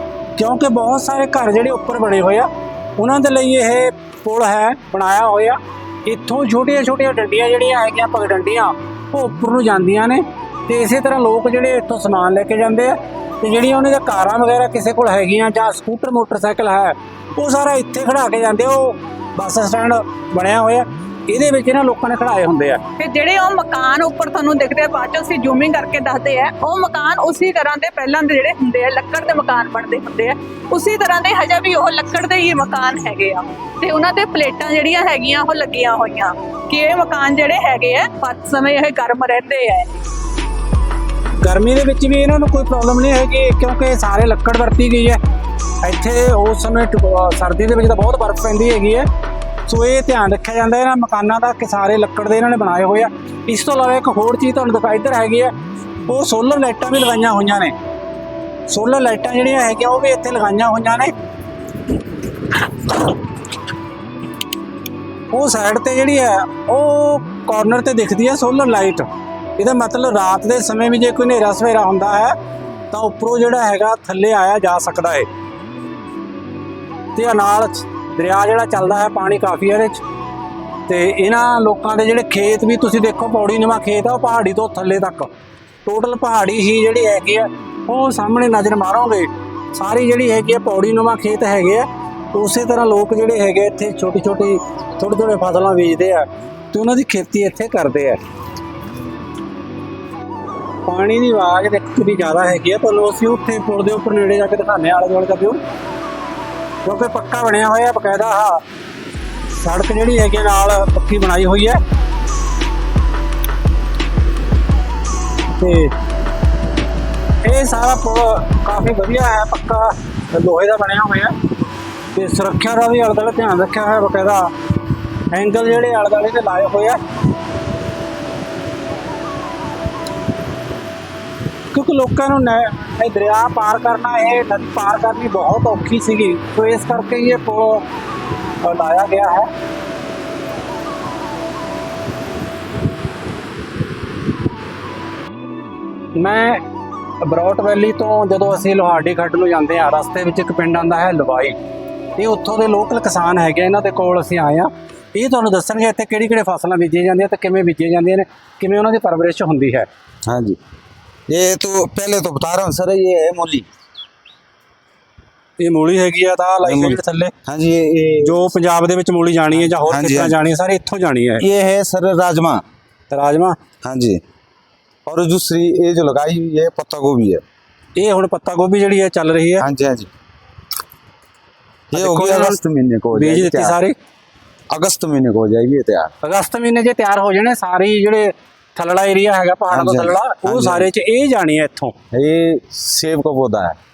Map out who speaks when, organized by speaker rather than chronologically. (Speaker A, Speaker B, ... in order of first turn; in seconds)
Speaker A: 0.4-22.9, 41.4-45.2, 45.8-49.1, 49.7-55.5, 56.1-57.7, 58.7-61.1, 65.3-72.4, 72.9-75.3, 77.2-80.0, 80.9-85.3, 85.8-98.2, 100.9-105.6, 106.8-108.6, 109.6-111.8, 115.6-115.9, 117.4-121.3, 122.2-124.5, 125.3-127.0, 131.7-137.8, 138.6-139.5, 146.2-146.6, 147.2-151.6, 152.2-159.9, 165.6-167.3, 168.2-171.4, 173.1-173.6, 178.0-179.7, 181.9-182.6, 183.1-183.9, 186.2-191.9
Speaker B: 23.0-40.0
Speaker C: 160.3-160.6, 161.3-163.7, 166.6-168.4, 169.5-170.4, 171.4-172.6, 173.8-174.2, 175.1-177.4, 179.6-180.1, 181.9-183.8, 184.7-186.1, 189.7-190.9, 192.1-193.8